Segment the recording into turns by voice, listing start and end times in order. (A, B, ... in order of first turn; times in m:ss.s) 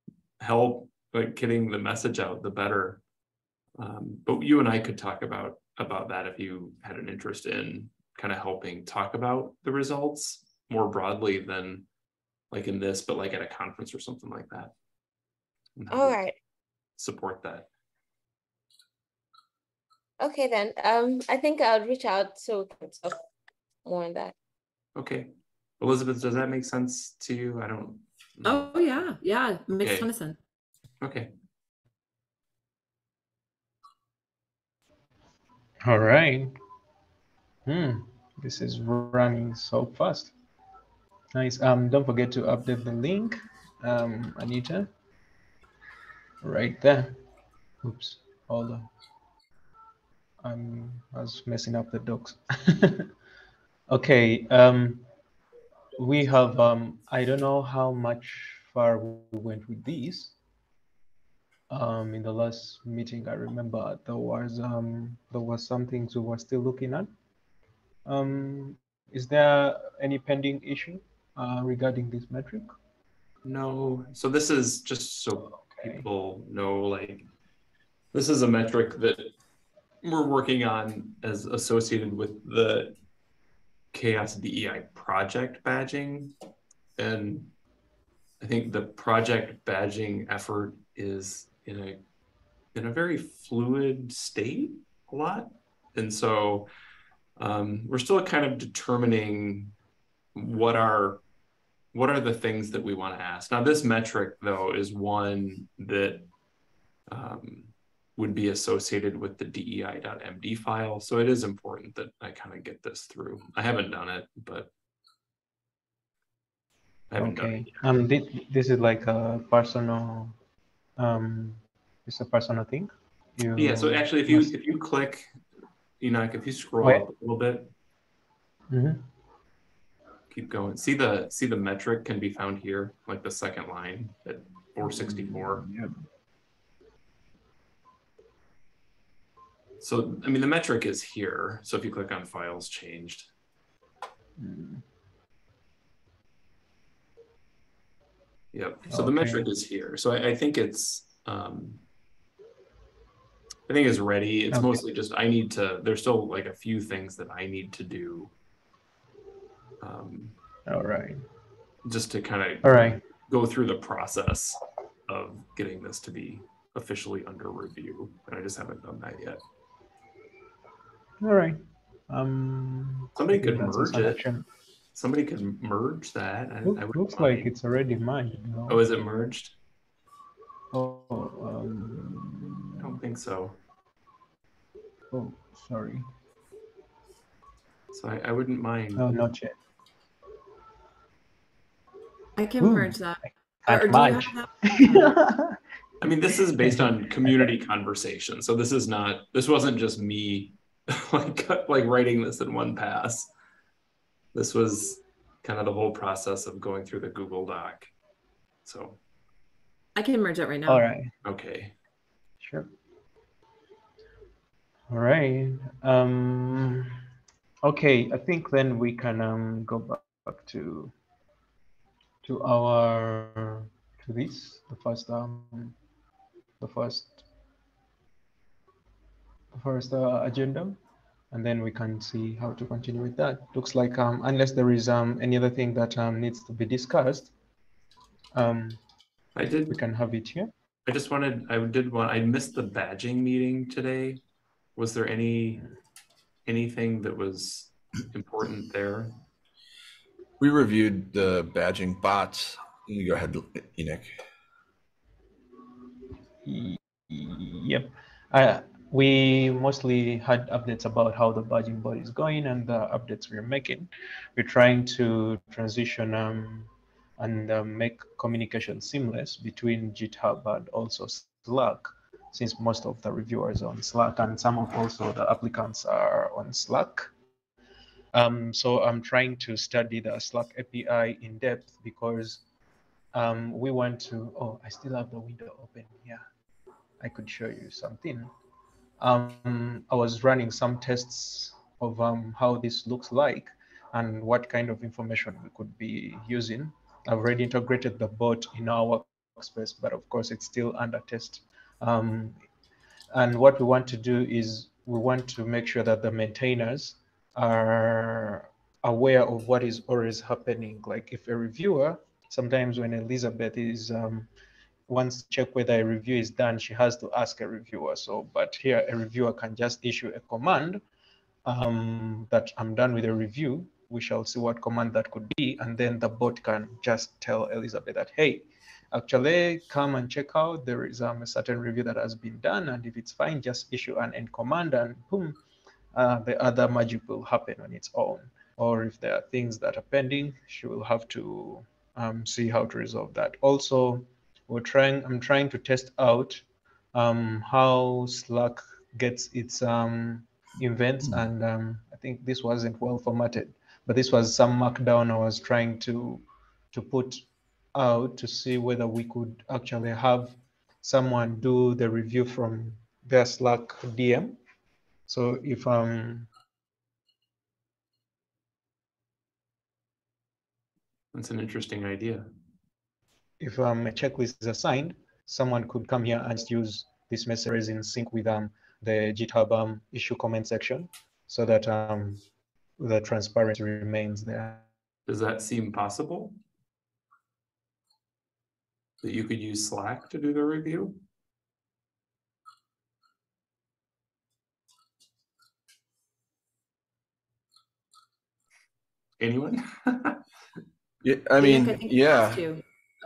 0:00.4-0:03.0 A
0:03.8-0:11.9 A
0:12.5-0:14.7 A
0:15.8-0:16.2 A
0:15.9-0:16.4 B
0:17.0-0:17.7 A
0:20.2-0:23.2 B
0:23.8-0:24.3 B
0:25.0-0:29.0 A
0:28.4-0:30.4 C
0:29.8-0:30.1 A
0:31.0-0:31.3 A
0:35.8-0:36.5 D
0:37.6-0:40.3 D
0:41.3-0:44.9 D
0:46.4-0:47.2 D
0:47.8-0:48.9 D
0:50.4-0:53.1 D
0:53.9-0:55.0 D
0:56.0-1:00.4 D
1:01.7-1:07.1 D
1:08.0-1:12.7 D
1:13.4-1:17.3 A
1:15.7-1:16.0 D
1:18.1-1:19.3 A
1:20.0-1:22.9 A
1:23.9-1:26.3 A
1:27.0-1:27.5 A
1:28.4-1:32.0 A
1:32.7-1:36.7 A
1:37.4-1:39.7 A
1:40.3-1:41.2 A
1:41.9-1:46.3 A
1:47.1-1:54.7 A
1:57.1-1:57.8 A
1:57.2-2:00.3 D
2:01.0-2:04.5 D
2:03.6-2:05.3 A
2:06.0-2:07.7 A
2:08.7-2:09.0 D
2:10.3-2:15.6 A
2:14.8-2:16.0 D
2:19.8-2:23.3 A
2:24.4-2:24.8 D
2:28.5-2:31.8 A
2:28.9-2:29.5 D
2:33.7-2:38.3 A
2:34.5-2:34.8 D
2:39.8-2:40.4 A
2:40.7-2:41.2 D
2:41.8-2:49.4 A
2:42.6-2:43.0 D
2:51.2-2:51.6 D
2:52.1-2:54.4 D
2:53.1-2:54.2 A
2:54.9-2:57.5 A
2:56.6-2:58.8 D
2:58.7-2:59.6 A
3:00.7-3:02.9 D
3:02.8-3:03.6 A
3:05.1-3:06.0 D
3:07.9-3:09.0 A
3:09.0-3:09.6 D
3:12.4-3:14.5 C
3:12.6-3:13.0 D
3:13.6-3:15.6 D
3:14.8-3:15.1 A
3:16.0-3:23.3 A
3:16.6-3:17.5 D
3:24.3-3:27.9 A
3:28.6-3:29.0 A
3:30.0-3:30.9 C
3:30.6-3:31.1 D
3:31.2-3:31.7 A
3:32.4-3:32.7 D
3:34.9-3:37.0 D
3:37.6-3:40.9 D
3:42.2-3:45.8 D
3:46.6-3:47.2 D
3:49.5-3:50.8 D
3:51.3-3:57.3 D
3:58.3-3:58.8 D
3:59.3-3:59.8 A
3:59.7-4:00.5 D
4:00.8-4:04.2 A
4:04.8-4:05.6 A
4:06.4-4:09.1 A
4:10.4-4:14.1 E
4:16.4-4:37.1 D
4:38.1-4:42.4 D
4:43.1-4:46.2 D
4:47.0-4:48.3 D
4:49.0-5:02.4 D
5:03.1-5:14.3 D
5:14.9-5:20.8 D
5:21.4-5:35.4 D
5:35.9-5:57.2 D
5:57.7-6:04.4 D
6:05.1-6:06.3 D
6:11.1-6:12.3 A
6:13.4-6:22.2 D
6:22.8-6:24.7 D
6:25.1-6:26.4 A
6:29.0-6:31.0 A
6:39.2-6:40.2 A
6:41.0-6:42.4 E
6:41.4-6:42.6 C